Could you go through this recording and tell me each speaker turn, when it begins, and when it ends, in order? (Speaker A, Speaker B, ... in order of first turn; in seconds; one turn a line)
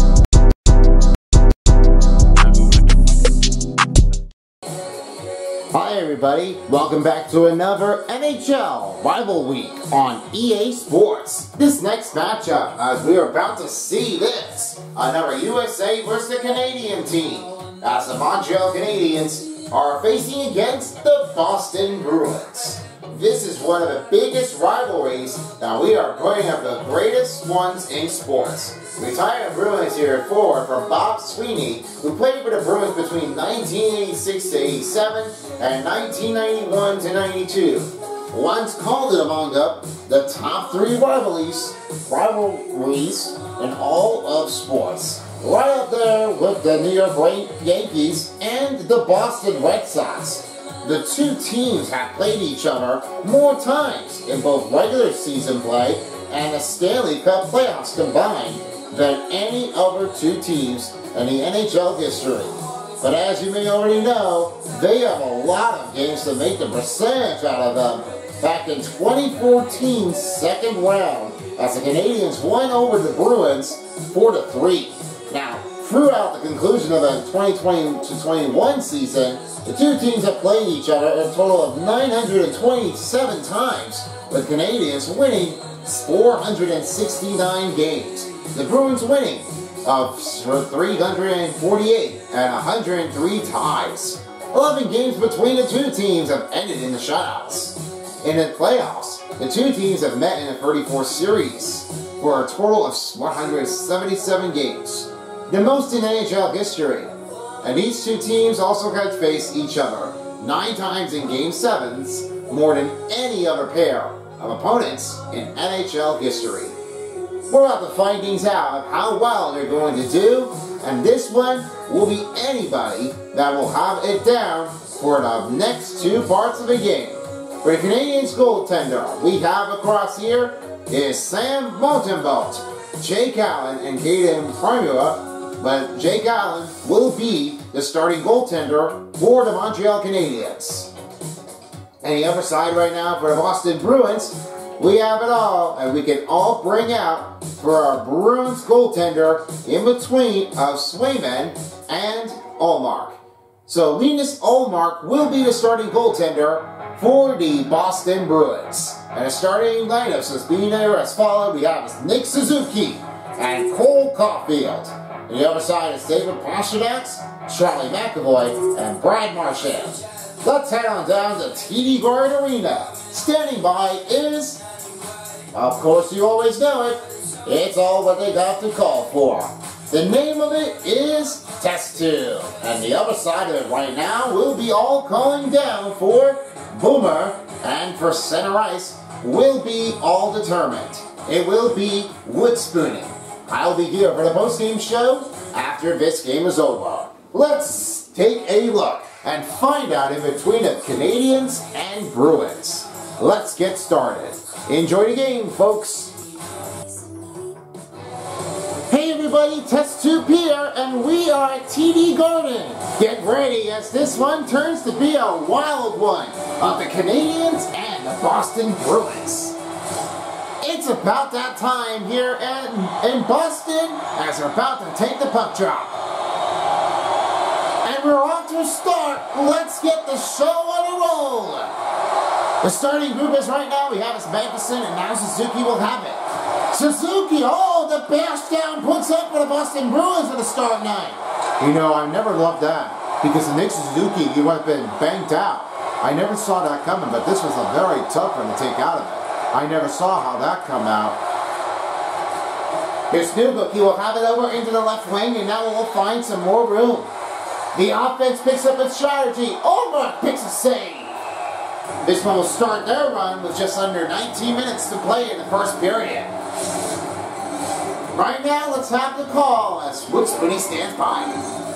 Speaker A: 5.7-116.8
Speaker A: 117.5-140.9
Speaker A: 142.0-174.6
Speaker A: 175.5-206.2
Speaker A: 208.9-219.6
Speaker A: 220.6-225.9
Speaker A: 227.8-231.7
Speaker A: 232.6-251.2
Speaker A: 253.1-257.1
Speaker A: 257.7-261.2
Speaker A: 262.0-266.3
Speaker A: 268.1-271.3